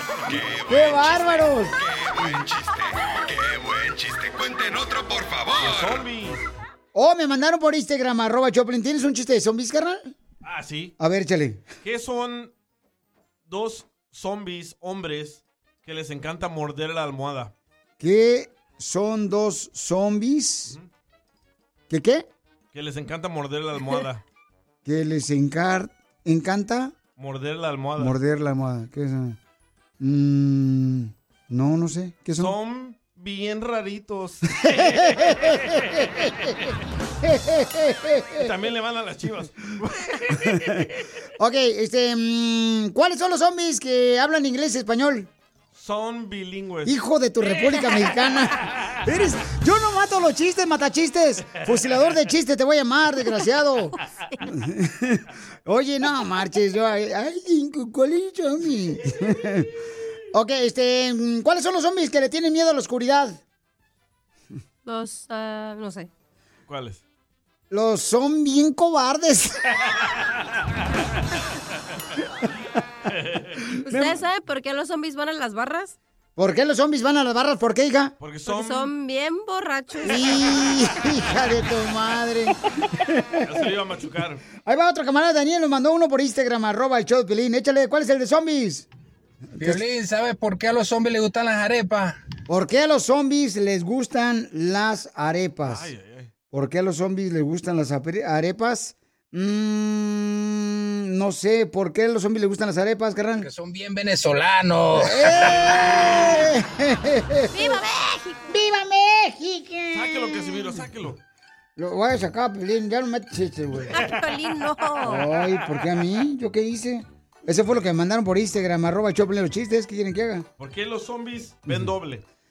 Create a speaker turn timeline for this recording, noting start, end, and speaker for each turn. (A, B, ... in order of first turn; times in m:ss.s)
0:00.2-0:06.0 A
0:00.7-0:01.8 B
0:05.6-0:06.5 C
0:06.9-0:10.1 B
0:10.4-0:10.9 C
0:11.0-0:11.6 B
0:11.8-0:12.5 C
0:13.5-0:17.5 C
0:18.0-0:20.8 B
0:21.9-0:22.3 B
0:22.7-0:24.2 C
0:24.8-0:26.9 B
0:27.2-0:28.2 C
0:28.0-0:29.4 B
0:30.0-0:32.5 B
0:32.4-0:36.2 C
0:34.6-0:36.3 B
0:37.2-0:38.5 B
0:38.4-0:40.9 C
0:40.4-0:40.9 B
0:41.4-0:45.3 B
0:45.7-0:46.9 C
0:46.8-0:59.7 B
0:51.6-0:52.0 C
1:00.3-1:03.4 B
1:04.8-1:06.1 D
1:06.7-1:07.0 C
1:07.7-1:09.6 B
1:13.1-1:13.6 C
1:13.8-1:16.0 D
1:13.8-1:14.2 B
1:16.4-1:18.1 B
1:18.2-1:18.9 C
1:18.4-1:20.4 D
1:20.0-1:23.6 B
1:23.4-1:24.4 C
1:24.6-1:28.9 B
1:29.6-1:32.2 E
1:32.5-1:35.9 B
1:35.6-1:36.3 C
1:36.5-1:43.5 B
1:43.4-1:45.5 E
1:45.0-1:47.8 B
1:45.4-1:46.4 C
1:47.5-1:48.4 D
1:48.4-1:50.8 B
1:49.9-1:51.2 C
1:51.8-1:54.0 B
1:53.9-1:55.3 D
1:55.0-2:00.5 B
2:00.6-2:02.2 C